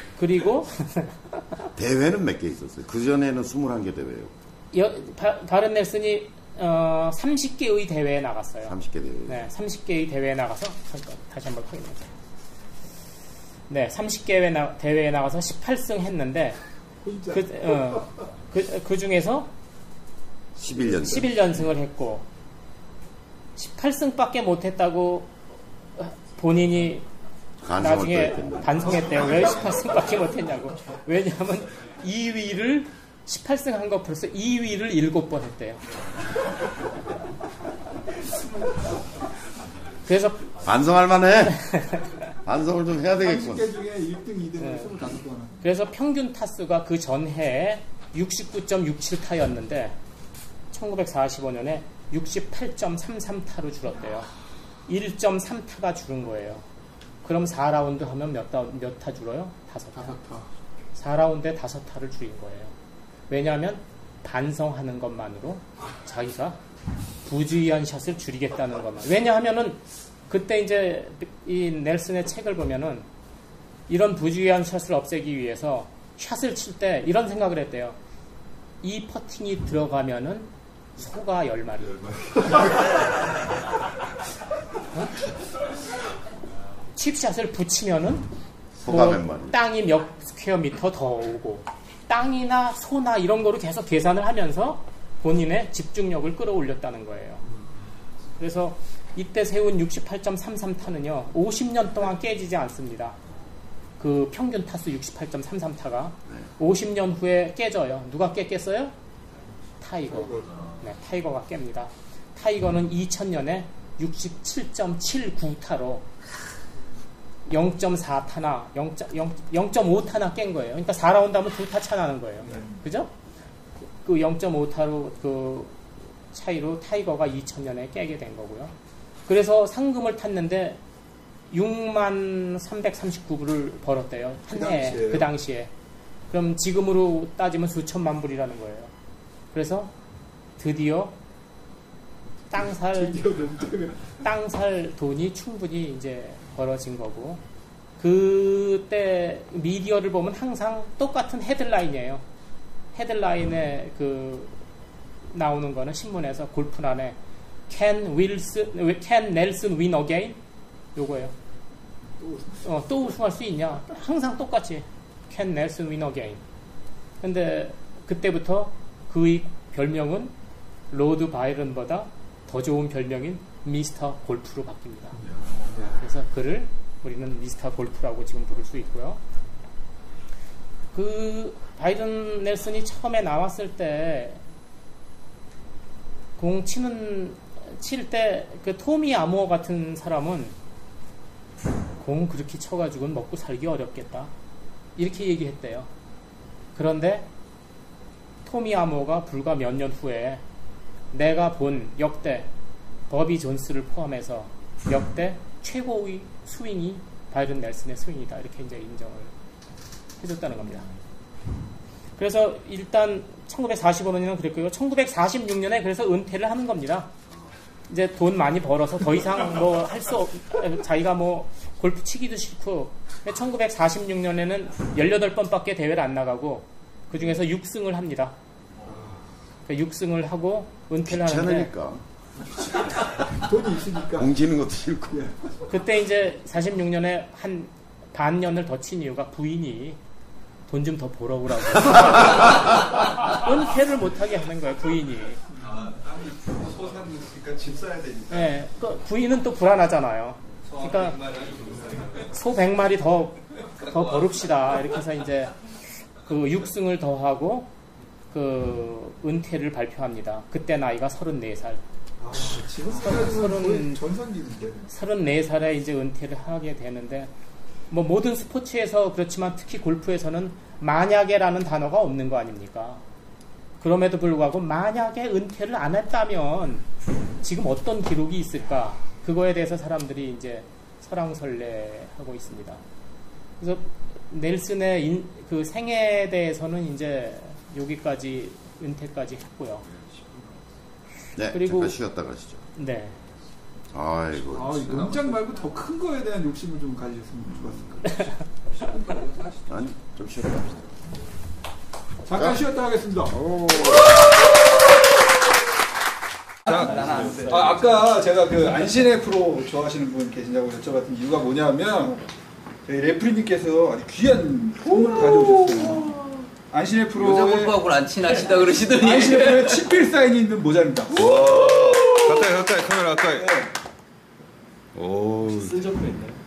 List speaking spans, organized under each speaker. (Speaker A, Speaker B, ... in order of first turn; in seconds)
Speaker A: 0.2-1.7, 4.7-12.1, 13.7-16.6, 17.3-19.5, 20.9-22.3, 23.6-25.3, 26.0-27.1, 27.8-35.8, 40.1-40.5, 41.5-42.1, 44.6-44.9, 45.6-50.0, 50.7-54.3, 54.9-56.7, 57.2-60.2, 61.0-62.7, 63.3-66.6, 67.2-73.1, 73.9-78.0, 78.8-82.4, 87.0-88.3, 88.9-97.5, 98.4-103.2, 104.0-108.9, 109.8-116.1, 117.5-123.1, 123.9-128.7, 129.3-130.8, 131.5-135.7, 136.3-138.9, 139.5-139.9, 140.6-141.2, 142.5-143.2, 144.2-147.4, 148.0-152.2, 152.9-154.6, 155.3-157.2, 157.7-160.4, 160.9-161.3, 162.6-166.4, 167.2-170.3, 170.9-175.2, 175.9-179.2, 180.9-184.4, 186.4-190.6, 192.0-194.3, 195.0-195.9, 196.8-197.3, 198.4-200.4, 201.1-202.5, 203.1-209.3, 210.2-210.9, 212.2-217.1, 217.9-228.4, 229.7-231.7, 235.7-240.0, 240.7-245.4, 248.3-251.2, 252.2-255.6, 256.2-257.7, 258.3-261.8, 263.0-264.0, 264.9-267.3, 267.9-273.0, 273.8-276.9, 277.4-282.8, 283.6-289.9, 291.5-292.0, 292.8-293.2, 325.6-326.4
Speaker B: 1.8-4.3, 8.7-9.5, 20.6-21.3, 27.6-29.2, 40.6-41.8, 42.4-43.7, 88.8-89.6, 231.1-232.1, 232.7-232.9, 234.2-235.3, 291.4-292.6, 293.9-295.1, 297.6-297.9, 299.7-300.8, 303.4-304.1
Speaker C: 17.0-18.0, 43.2-45.6, 60.0-60.5, 122.4-122.8, 134.5-135.3, 142.6-144.1, 162.2-162.6, 175.6-176.0, 228.8-229.2, 233.4-234.3, 262.2-264.9, 294.5-298.3, 302.2-304.0, 306.8-312.2, 312.9-317.8, 318.9-321.4, 323.3-323.7
Speaker D: 245.6-248.5, 250.7-252.3, 289.9-290.6, 294.9-295.5, 298.7-299.8, 306.7-307.6, 321.1-323.6, 324.9-325.9
Speaker E: 306.7-307.9, 317.1-319.8